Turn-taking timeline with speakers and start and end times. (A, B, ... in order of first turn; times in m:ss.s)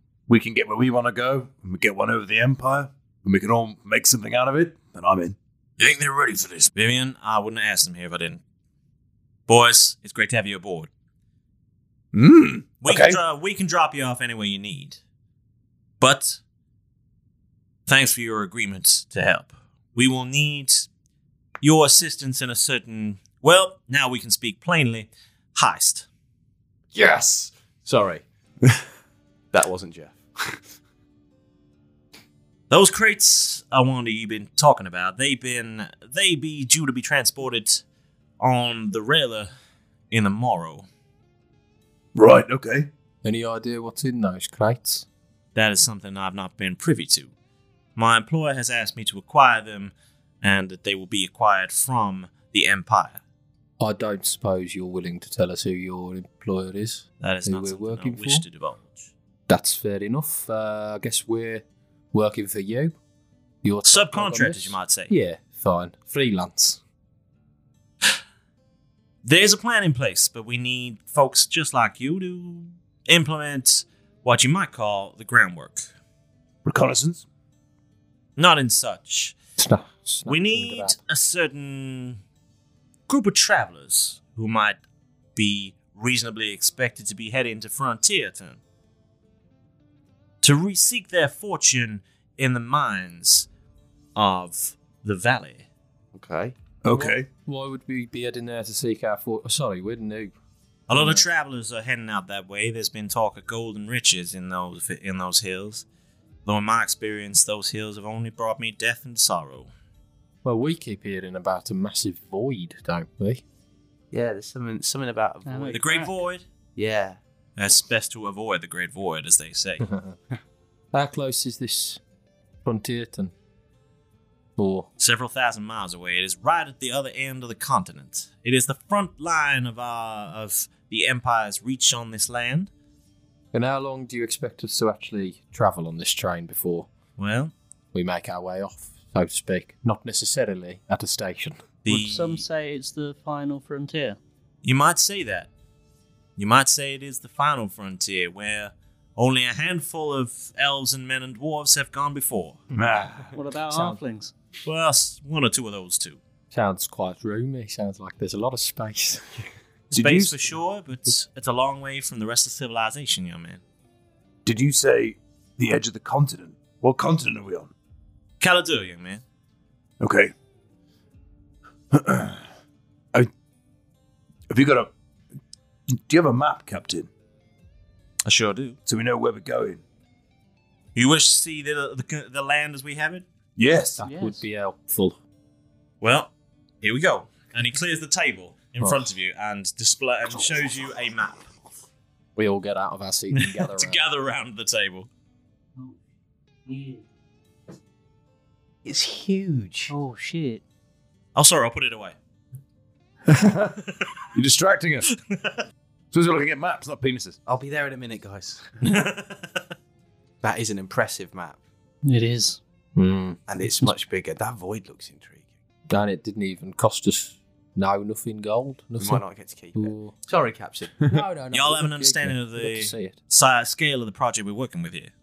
0:00.3-0:05.4 A
0:06.2-0:08.4 B
0:09.5-0:10.9 B
0:12.1-0:13.2 A
0:12.8-0:15.0 B
0:16.0-0:16.4 B
0:17.9-0:20.9 B
0:21.6-0:26.1 B
0:26.9-0:28.2 C
0:29.5-0:30.7 C
0:32.7-0:37.8 B
0:38.4-0:39.5 B
0:40.1-0:40.9 B
0:42.2-0:42.9 A
0:43.2-0:45.1 D
0:45.6-0:47.3 B
0:48.0-0:53.2 B
0:53.8-0:58.4 D
0:57.2-0:59.1 B
0:59.5-1:03.0 D
1:03.6-1:06.8 D
1:03.8-1:05.1 B
1:09.2-1:15.9 B
1:16.6-1:17.2 A
1:18.4-1:19.4 B
1:19.6-1:21.0 D
1:20.3-1:22.2 B
1:23.1-1:24.8 B
1:25.4-1:28.6 B
1:30.4-1:33.5 B
1:34.2-1:35.7 B
1:36.1-1:36.6 C
1:36.8-1:37.3 A
1:36.9-1:40.3 D
1:40.9-1:45.8 B
1:40.9-1:41.2 D
1:46.5-1:49.7 B
1:50.4-1:53.4 D
1:54.1-1:55.8 C
1:55.5-1:56.1 E
1:55.7-1:56.4 B
1:56.8-1:57.2 C
1:57.6-1:59.8 B
1:59.8-2:00.2 D
2:00.9-2:02.0 D
2:02.6-2:03.3 D
2:04.6-2:04.9 D
2:05.0-2:12.7 B
2:13.5-2:16.9 D
2:17.2-2:17.5 B
2:17.9-2:21.6 D
2:21.8-2:22.4 B
2:21.9-2:24.2 E
2:24.6-2:25.5 B
2:26.4-2:32.6 B
2:32.7-2:33.4 A
2:33.3-2:34.3 E
2:33.7-2:34.0 D
2:34.6-2:36.2 B
2:36.5-2:39.5 D
2:39.9-2:40.5 A
2:39.9-2:43.6 B
2:44.4-2:47.7 A
2:48.4-2:49.2 B
2:50.0-2:50.3 A
2:51.9-2:52.4 A
2:54.5-2:54.9 A
2:56.0-2:57.1 A
2:58.2-2:58.8 B
2:58.9-2:59.8 A
3:01.0-3:03.3 B
3:03.6-3:04.0 A
3:04.0-3:05.2 D
3:04.0-3:04.4 E
3:06.0-3:06.3 B
3:06.8-3:11.5 B
3:08.8-3:09.1 D
3:12.4-3:14.0 D
3:13.3-3:15.1 B
3:16.7-3:17.0 E
3:18.8-3:19.9 C
3:19.9-3:20.6 E
3:21.4-3:22.2 B
3:23.3-3:23.8 A
3:24.3-3:25.1 A
3:25.1-3:25.6 B
3:26.1-3:27.4 A
3:27.5-3:28.8 C
3:28.8-3:29.6 B
3:30.4-3:31.6 C
3:32.0-3:32.6 E
3:33.0-3:33.4 D
3:33.5-3:35.4 C
3:35.9-3:39.2 D
3:39.0-3:41.1 C
3:39.8-3:40.1 D
3:41.1-3:43.2 D
3:41.5-3:45.1 B